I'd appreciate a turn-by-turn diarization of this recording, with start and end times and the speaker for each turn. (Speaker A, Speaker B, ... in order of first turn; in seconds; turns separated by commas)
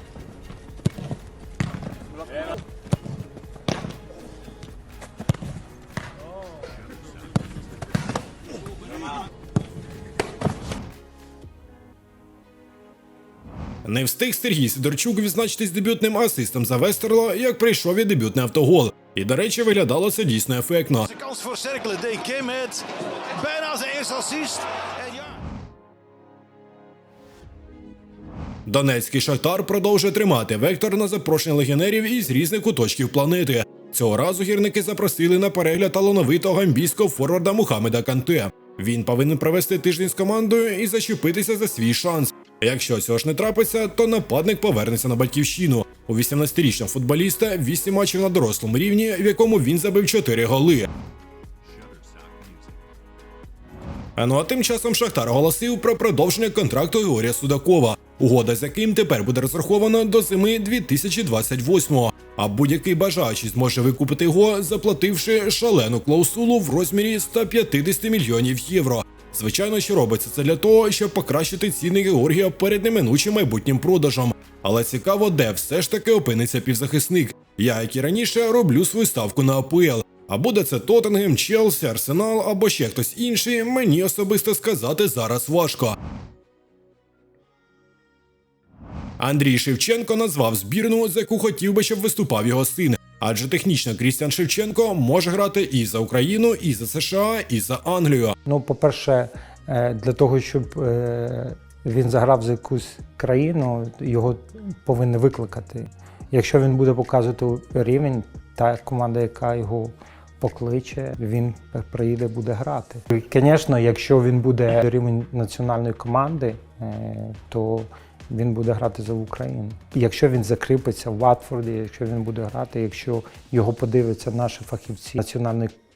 Speaker A: 13.8-21.1, Speaker B: 21.1-25.4, Speaker A: 28.7-50.9, Speaker B: 51.8-52.5, Speaker A: 54.2-86.0, Speaker A: 89.2-98.4, Speaker C: 98.5-125.7